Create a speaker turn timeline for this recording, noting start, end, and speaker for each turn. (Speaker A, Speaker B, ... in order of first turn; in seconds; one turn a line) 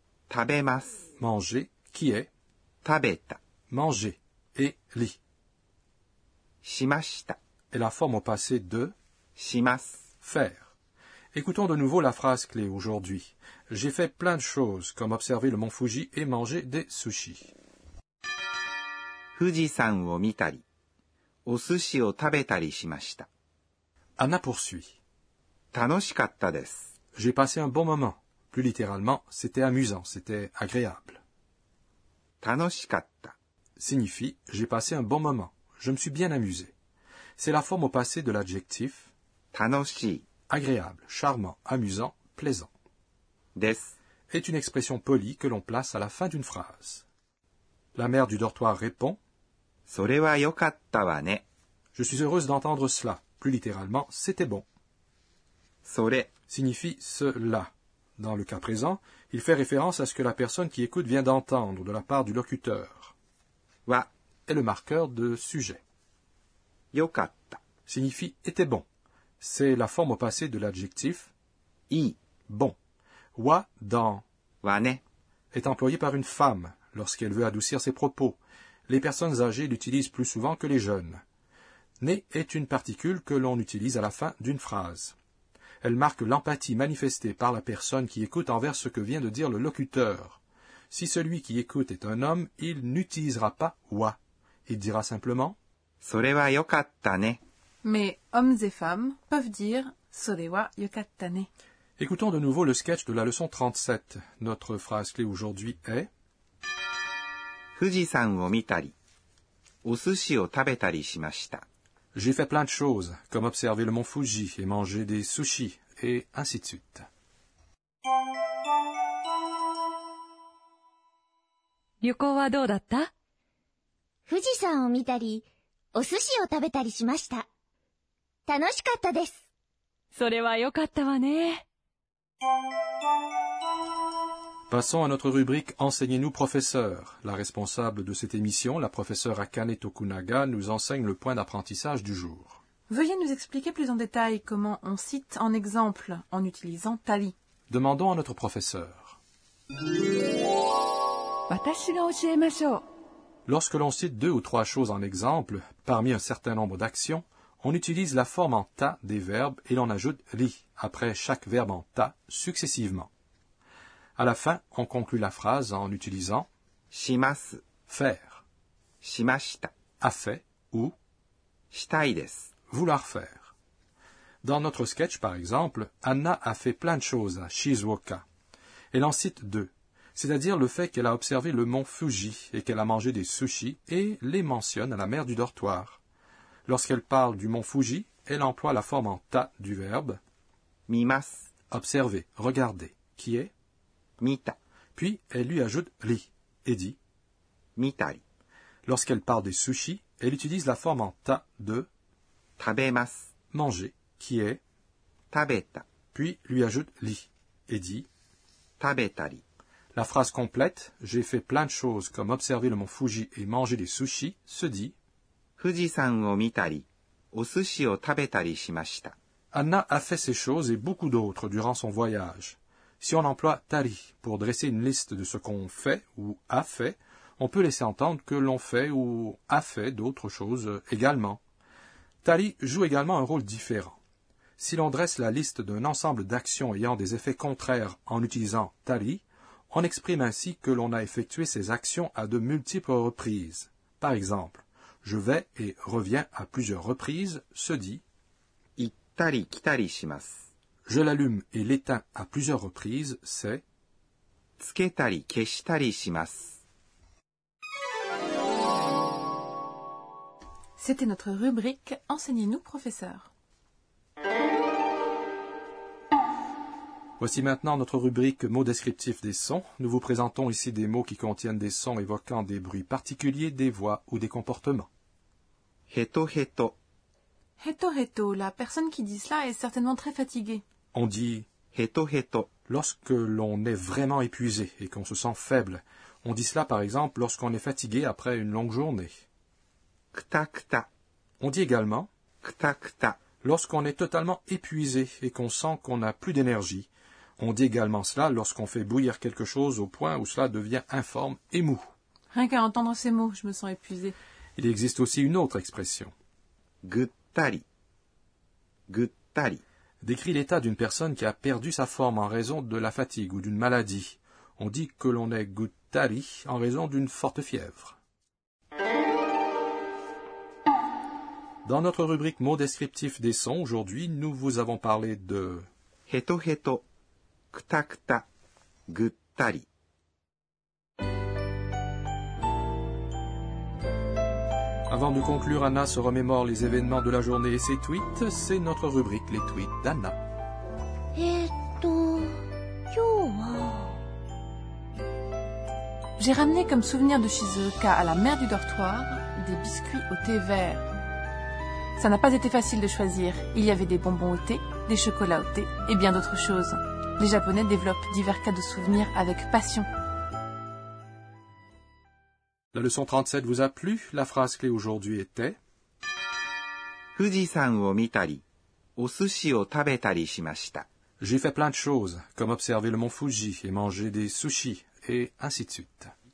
Speaker A: 0.3-1.1
Speaker B: 1.2-2.3
Speaker A: 2.8-3.4
Speaker B: 3.7-5.2
Speaker A: 6.6-7.4
Speaker B: 7.7-8.9
Speaker A: 9.4-10.1
Speaker B: 10.2-10.7
Speaker B: 11.3-17.5
Speaker A: 19.4-20.6
Speaker A: 21.5-23.3
Speaker B: 24.2-25.0
Speaker A: 25.7-26.9
Speaker B: 27.1-31.2
Speaker A: 32.4-33.4
Speaker B: 33.8-36.7
Speaker B: 37.4-39.1
Speaker A: 39.5-40.3
Speaker B: 40.5-42.7
Speaker A: 43.6-44.0
Speaker B: 44.3-47.1
Speaker B: 48.0-49.2
Speaker A: 49.9-51.5
Speaker B: 52.0-54.7
Speaker A: 55.8-56.3
Speaker B: 56.5-63.1
Speaker B: 64.5-65.8
Speaker A: 66.9-67.6
Speaker B: 67.9-68.8
Speaker B: 69.4-71.3
Speaker A: 71.9-72.2
Speaker B: 72.5-72.8
Speaker B: 73.4-74.2
Speaker A: 74.6-75.0
Speaker B: 75.5-81.2
Speaker B: 82.0-85.2
Speaker B: 85.8-90.4
Speaker B: 90.9-95.6
Speaker A: 96.0-97.4
Speaker C: 97.8-101.5
Speaker B: 102.0-106.1
Speaker A: 107.8-108.9
Speaker A: 109.8-111.6
Speaker B: 112.1-117.1
Speaker D: 122.0-123.1
Speaker E: 124.3-127.5
Speaker E: 128.5-129.4
Speaker D: 130.1-131.6
Speaker B: 134.7-142.6
Speaker C: 142.9-147.3
Speaker B: 147.7-149.2
Speaker D: 151.5-152.8
Speaker B: 153.5-163.1
Speaker B: 164.2-166.5
Speaker A: 166.9-167.6
Speaker B: 167.9-168.4
Speaker A: 169.0-169.7
Speaker B: 170.0-170.9
Speaker A: 171.7-172.5
Speaker B: 172.7-173.5
Speaker B: 174.4-178.2
Speaker B: 178.9-186.0
Speaker B: 186.7-190.2
Speaker A: 190.9-191.5
Speaker B: 191.7-193.5
Speaker A: 194.2-194.6
Speaker B: 195.0-197.0
Speaker A: 197.8-198.2
Speaker B: 198.9-201.9
Speaker A: 202.6-203.3
Speaker B: 203.5-204.6
Speaker A: 205.3-205.8
Speaker B: 206.1-208.1
Speaker A: 208.8-209.4
Speaker B: 209.9-214.9
Speaker A: 215.6-219.2
Speaker B: 219.5-231.4
Speaker B: 232.2-234.0
Speaker B: 234.6-248.0
Speaker A: 248.8-250.4
Speaker B: 250.9-253.6
Speaker A: 254.6-256.6
Speaker C: 260.8-263.3
Speaker B: 267.2-274.9
Speaker A: 275.9-276.8
Speaker C: 277.6-280.6
Speaker B: 280.9-281.5
Speaker A: 281.7-282.5
Speaker B: 282.7-289.1
Speaker A: 290.1-290.9
Speaker B: 291.4-292.1
Speaker A: 292.4-293.2
Speaker B: 293.4-301.8
Speaker C: 302.3-304.2
Speaker B: 304.6-306.1
Speaker A: 306.8-307.6
Speaker A: 308.9-309.6
Speaker B: 310.0-318.0
Speaker B: 321.6-325.7
Speaker A: 326.1-326.8
Speaker A: 327.5-328.2
Speaker A: 328.9-329.7
Speaker B: 334.9-340.2
Speaker E: 341.1-344.0
Speaker C: 346.2-350.9
Speaker C: 352.0-359.9
Speaker B: 362.7-365.6
Speaker A: 367.1-368.4
Speaker A: 369.0-370.9
Speaker B: 371.2-376.1